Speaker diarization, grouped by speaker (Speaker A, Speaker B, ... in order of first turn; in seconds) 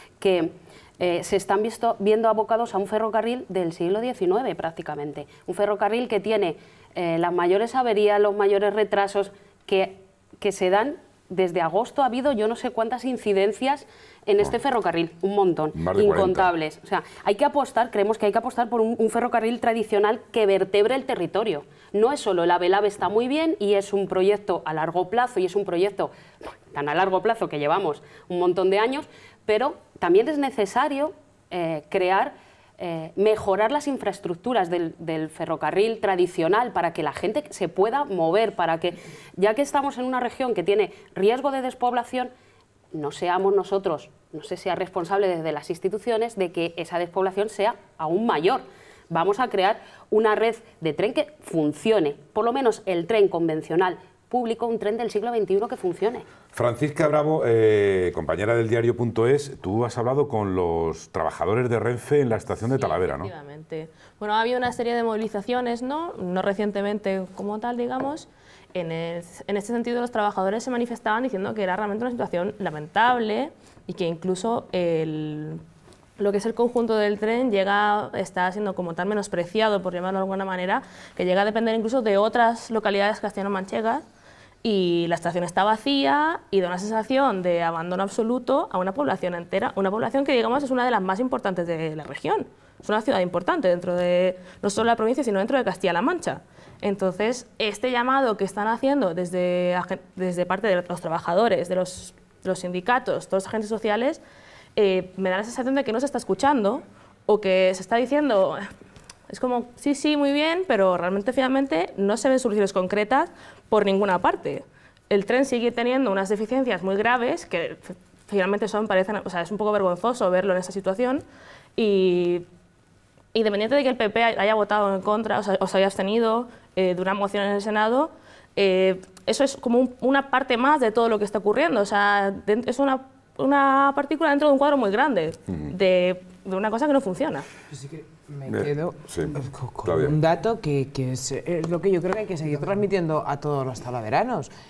Speaker A: 0.2-42.3, 42.9-56.3
Speaker B: 15.7-16.5, 56.5-63.3, 135.5-135.7, 138.5-140.2
Speaker C: 62.7-75.6, 76.2-84.0, 84.6-104.2, 104.8-108.7, 109.3-121.2, 121.8-122.5, 123.3-137.5
Speaker D: 137.7-144.5